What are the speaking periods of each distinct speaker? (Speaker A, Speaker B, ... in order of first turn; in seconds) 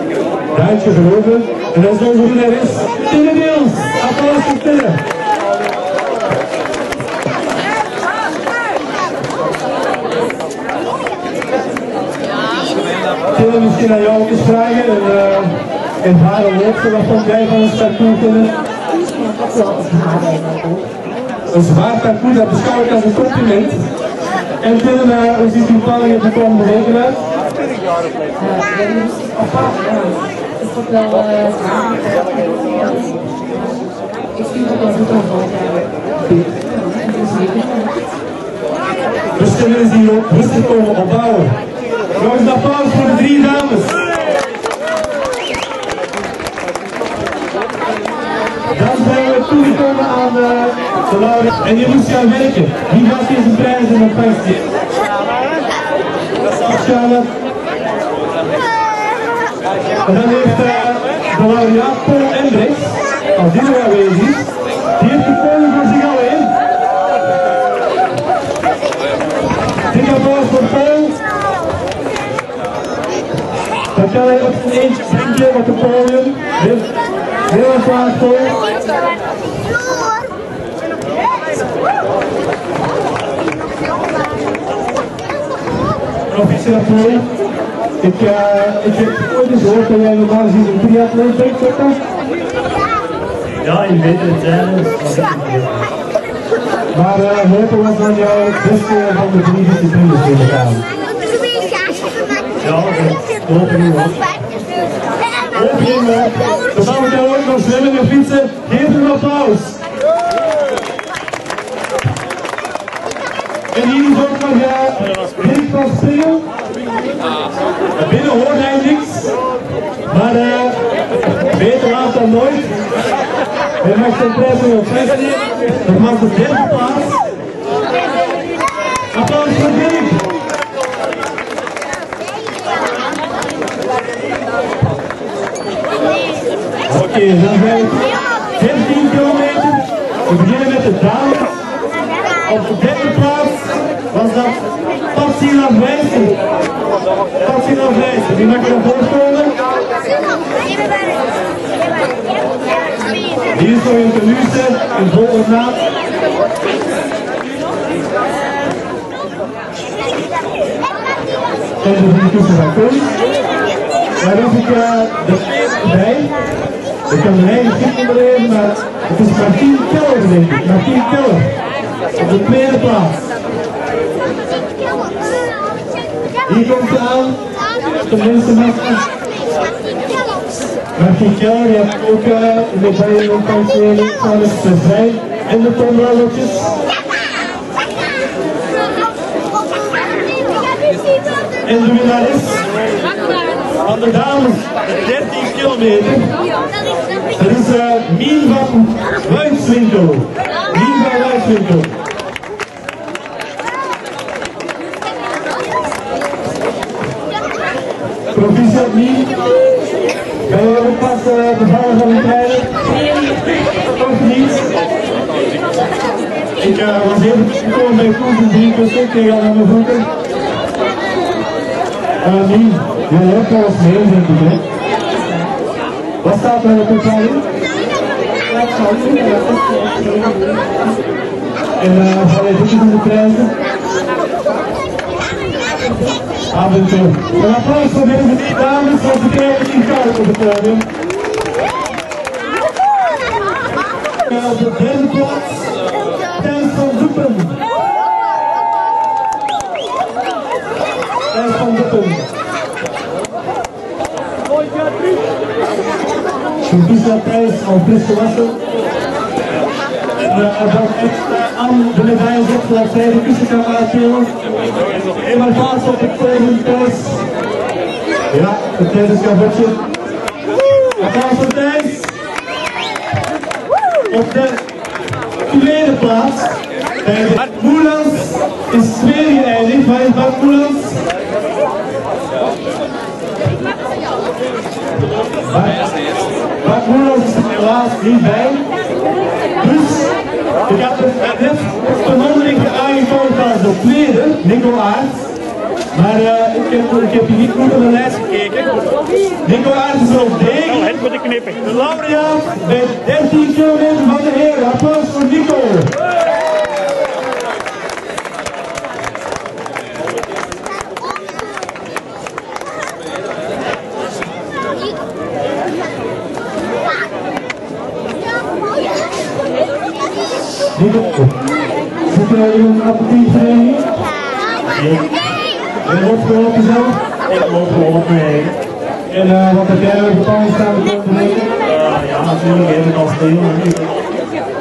Speaker A: 0.5-5.0, 13.3-18.5, 21.5-23.8, 24.6-27.2, 39.4-41.6, 42.2-44.0, 48.7-54.6, 56.6-57.3, 60.0-66.5, 69.9-71.2, 73.9-76.9, 77.5-78.6, 86.3-87.3, 88.0-92.0, 96.9-100.8, 105.5-109.8, 113.7-116.4, 118.0-119.3, 120.1-122.8, 123.8-127.2, 129.1-130.2, 136.9-141.6, 142.5-146.3, 147.4-149.6, 153.5-155.8, 161.8-163.1, 164.2-166.3, 167.1-171.5, 172.2-173.2, 176.5-177.4, 178.0-179.1, 181.0-186.8, 191.7-192.7, 193.8-196.3, 197.3-201.9, 208.3-209.3, 210.5-212.7, 214.0-214.7, 216.6-220.1, 222.2-224.6, 226.2-227.4, 231.8-233.6, 236.5-240.9, 244.3-245.6, 246.4-247.6, 251.3-252.2, 256.7-258.6, 260.2-264.3, 265.2-267.2, 268.3-269.8, 271.0-272.1, 274.1-274.6, 275.5-281.0, 285.5-285.8, 286.6-288.7, 289.6-290.1, 290.7-295.3, 295.9-298.8, 299.4-305.9, 320.8-321.4, 322.1-323.9, 325.8-327.0, 329.1-331.5
Speaker B: 19.1-20.9, 28.4-33.8, 34.3-38.0, 225.1-225.4, 228.5-231.0
Speaker C: 93.6-95.8, 102.6-104.3, 324.7-325.2, 327.3-328.6, 331.7-334.0